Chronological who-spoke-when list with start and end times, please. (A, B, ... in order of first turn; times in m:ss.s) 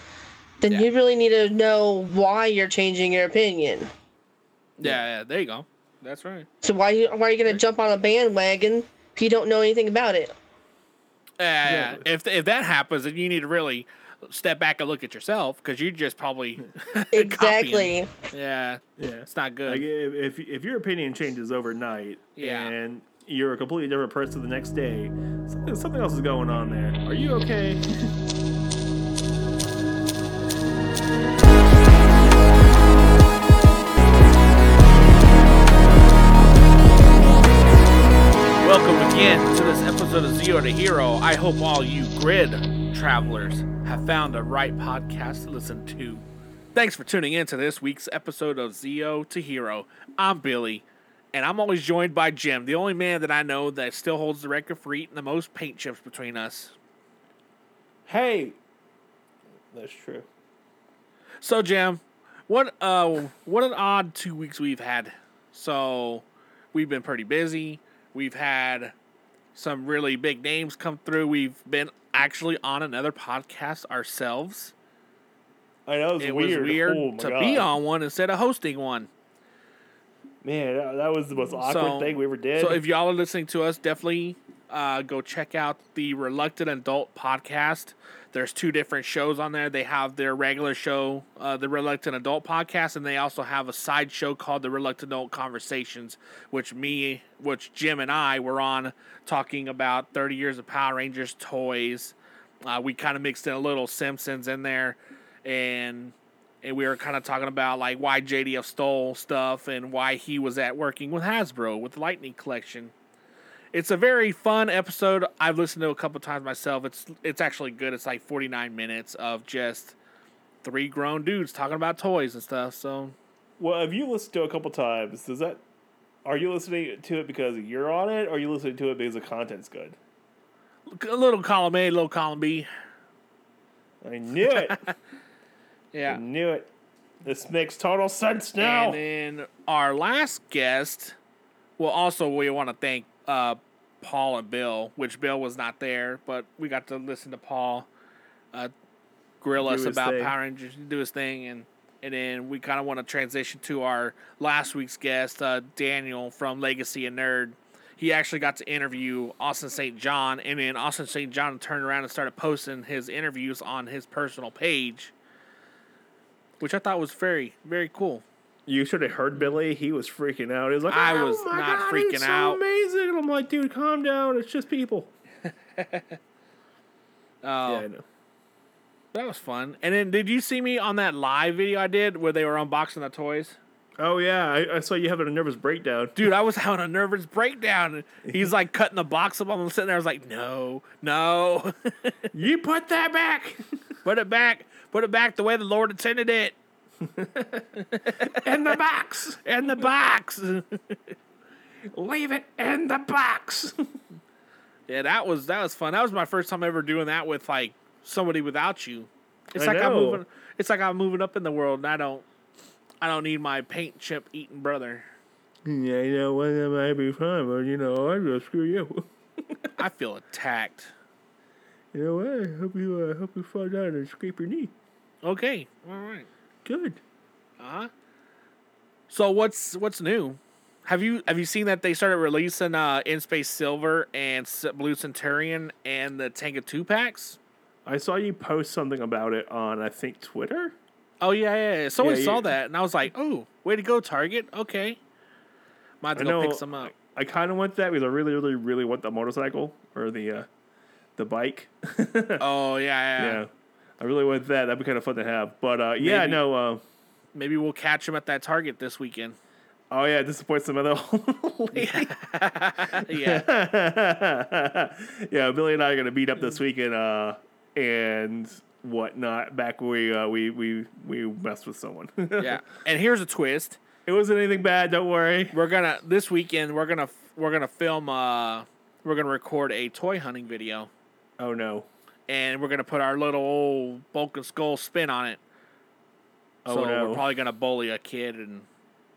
0:00.6-0:03.9 A
0:04.8-0:06.5 B
0:06.6-0:10.3 A
0:11.4-0:19.8 B
0:11.6-0:12.0 C
0:17.1-0:18.1 A
0:19.0-0:28.1 C
0:22.4-0:22.7 B
0:38.6-0:46.2 B
0:46.7-0:56.7 B
0:58.1-0:58.6 C
0:59.7-1:00.2 C
1:01.4-1:08.9 B
1:09.5-1:14.7 B
1:15.8-1:17.7 C
1:16.2-1:19.1 B
1:20.4-1:22.8 C
1:21.6-1:52.9 B
1:53.7-1:59.9 B
2:00.6-2:03.1 B
2:03.6-2:05.6 C
2:06.2-2:10.0 C
2:10.9-2:12.7 B
2:14.0-2:14.8 C
2:14.5-2:14.9 B
2:15.9-2:16.2 B
2:16.0-2:16.7 C
2:17.2-2:19.0 C
2:18.6-2:21.1 B
2:21.8-2:27.9 B
2:29.4-2:45.1 B
2:29.6-2:30.3 C
2:46.6-2:48.2 B
2:48.6-2:55.1 C
2:50.9-2:52.6 B
2:55.8-2:56.0 B
2:57.4-2:57.9 B
2:57.6-2:58.0 C
2:59.1-3:03.6 B
3:04.0-3:06.3 C
3:06.2-3:12.2 B
3:12.3-3:13.6 C
3:14.0-3:16.5 B
3:17.0-3:19.8 C
3:17.9-3:18.4 B
3:19.4-3:21.0 B
3:21.9-3:23.8 C
3:24.9-3:32.2 B
3:29.5-3:30.2 C
3:33.0-3:35.0 B
3:35.6-3:39.7 C
3:39.8-3:40.9 B
3:41.9-3:44.7 C
3:45.2-3:46.3 B
3:46.6-3:47.0 C
3:47.6-3:47.9 B
3:49.1-3:57.4 B
3:57.8-4:00.8 C
4:01.2-4:05.0 B
4:02.0-4:02.5 C
4:06.0-4:06.9 B
4:06.1-4:10.5 C
4:11.2-4:12.4 C
4:12.4-4:13.4 B
4:13.2-4:16.8 C
4:16.0-4:16.4 B
4:17.3-4:19.4 B
4:19.9-4:22.1 C
4:21.7-4:23.4 B
4:22.9-4:32.6 C
4:32.4-4:33.8 B
4:34.0-4:35.6 C
4:35.5-4:40.9 B
4:41.4-4:41.9 C
4:42.3-4:45.4 B
4:46.6-4:47.2 C
4:46.7-4:48.6 B